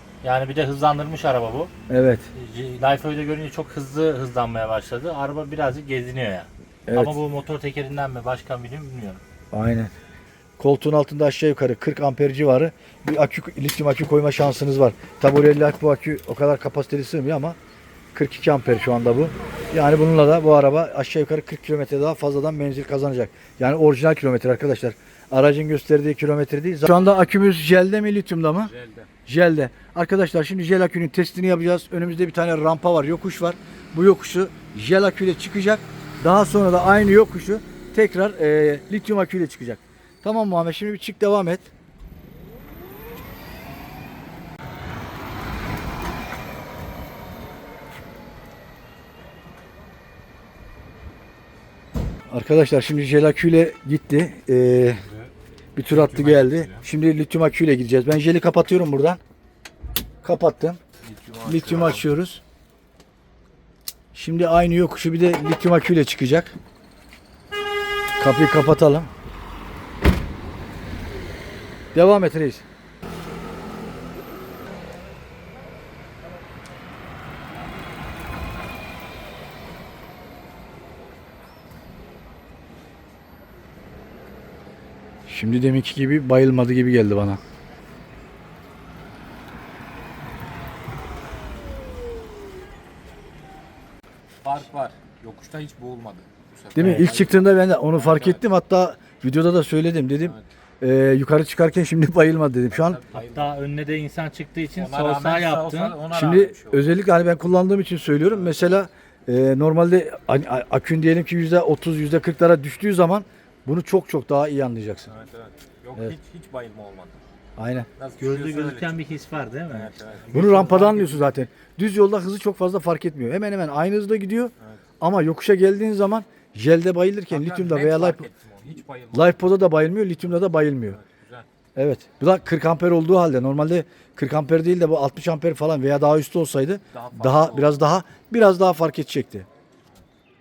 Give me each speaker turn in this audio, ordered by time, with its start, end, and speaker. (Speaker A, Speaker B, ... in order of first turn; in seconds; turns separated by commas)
Speaker A: 0.2-1.7, Speaker B: 1.9-2.3, Speaker A: 2.3-9.2, Speaker B: 6.9-7.2, Speaker B: 9.5-9.9, Speaker B: 10.6-17.6, Speaker B: 18.1-28.7, Speaker C: 28.7-29.1, Speaker B: 29.3-41.7, Speaker B: 52.3-55.0, Speaker B: 55.8-59.2, Speaker C: 55.9-56.9, Speaker B: 60.2-60.8, Speaker C: 61.0-62.0, Speaker B: 61.4-62.4, Speaker B: 64.1-66.5, Speaker B: 68.2-69.1, Speaker B: 71.9-72.7, Speaker B: 85.3-87.4, Speaker C: 94.4-98.4, Speaker B: 96.8-103.0, Speaker A: 96.8-97.1, Speaker C: 102.7-103.5, Speaker A: 103.1-106.0, Speaker C: 104.8-107.0, Speaker B: 106.1-115.1, Speaker C: 115.1-117.2, Speaker B: 117.6-117.9, Speaker C: 118.0-119.0, Speaker A: 118.2-120.8, Speaker C: 119.7-121.2, Speaker B: 120.3-128.3, Speaker C: 127.3-129.4, Speaker B: 129.1-131.0, Speaker C: 130.9-131.5, Speaker B: 131.8-139.5, Speaker C: 136.9-137.8